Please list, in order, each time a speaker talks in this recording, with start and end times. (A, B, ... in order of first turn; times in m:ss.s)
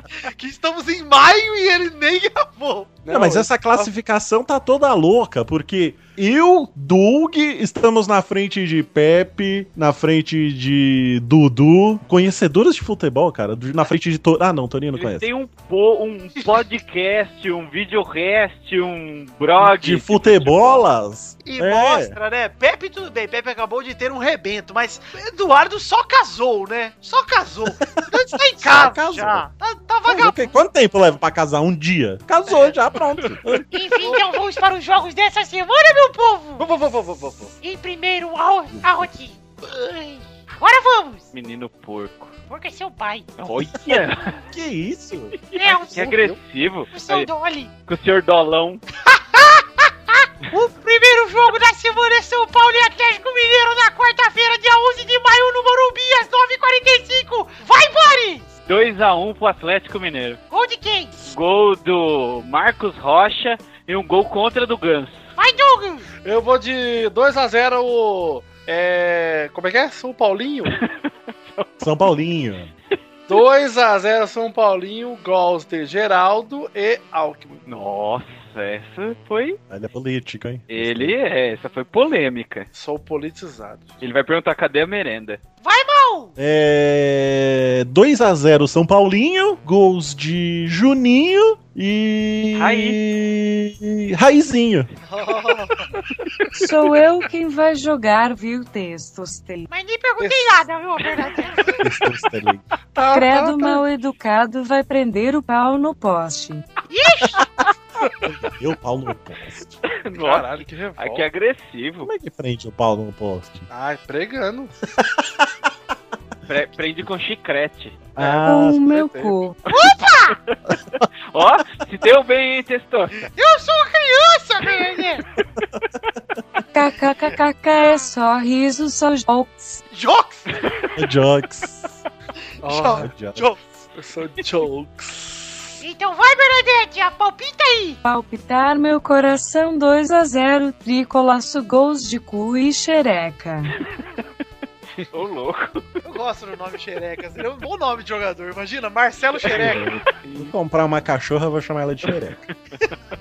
0:00.2-0:03.0 A
0:03.0-0:03.9 B
0:03.1-0:15.3 C
0:14.9-0:20.8 D
0:19.6-0:22.2 C
0:21.4-0:30.3 A
0:27.9-0:29.5 C
0:30.0-0:33.6 C
0:33.2-0:33.6 B
0:33.7-0:36.7 E
0:36.6-0:37.5 B
0:37.6-0:41.3 E
0:38.7-0:39.1 C
0:41.3-0:42.3 D
0:42.5-0:43.3 E
0:43.4-0:44.4 D
0:44.5-0:45.4 C
0:45.5-0:47.3 D
0:45.5-0:46.1 E
0:45.6-0:46.4 B
0:46.9-0:47.7 E
0:47.8-0:48.8 D
0:49.0-0:58.5 E
0:58.7-1:00.4 D
1:00.5-1:01.3 E
1:01.2-1:05.3 D
1:05.4-1:06.1 E
1:06.2-1:10.8 B
1:11.8-1:12.7 C
1:13.3-1:17.6 B
1:17.7-1:19.6 D
1:19.7-1:21.1 C
1:20.7-1:22.7 D
1:22.7-1:24.0 B
1:24.0-1:25.4 D
1:25.6-1:26.3 E
1:26.4-1:34.9 C
1:32.5-1:33.0 D
1:35.0-1:35.9 A
1:36.6-1:39.7 F
1:39.7-1:41.8 E
1:40.2-1:40.6 B
1:41.8-1:42.6 C
1:42.9-1:43.8 B
1:43.1-1:46.6 F
1:46.9-1:47.5 E
1:48.2-1:49.7 C
1:50.0-1:52.1 D
1:50.2-1:51.2 B
1:52.0-1:53.7 C
1:53.7-1:54.7 B
1:55.0-1:55.4 C
1:56.5-1:58.0 D
1:58.1-1:58.8 C
1:58.2-1:59.3 B
1:58.4-1:59.6 F
1:59.7-2:00.4 E
2:01.3-2:03.2 D
2:03.4-2:05.2 E
2:06.7-2:09.8 F
2:09.9-2:10.6 A
2:10.9-2:11.9 C
2:12.6-2:13.1 B
2:12.6-2:13.6 A
2:12.9-2:13.6 C
2:14.0-2:15.8 B
2:15.8-2:18.0 E
2:18.0-2:23.7 F
2:25.1-2:25.8 D
2:26.0-2:29.8 A
2:29.5-2:32.4 C
2:30.2-2:30.5 D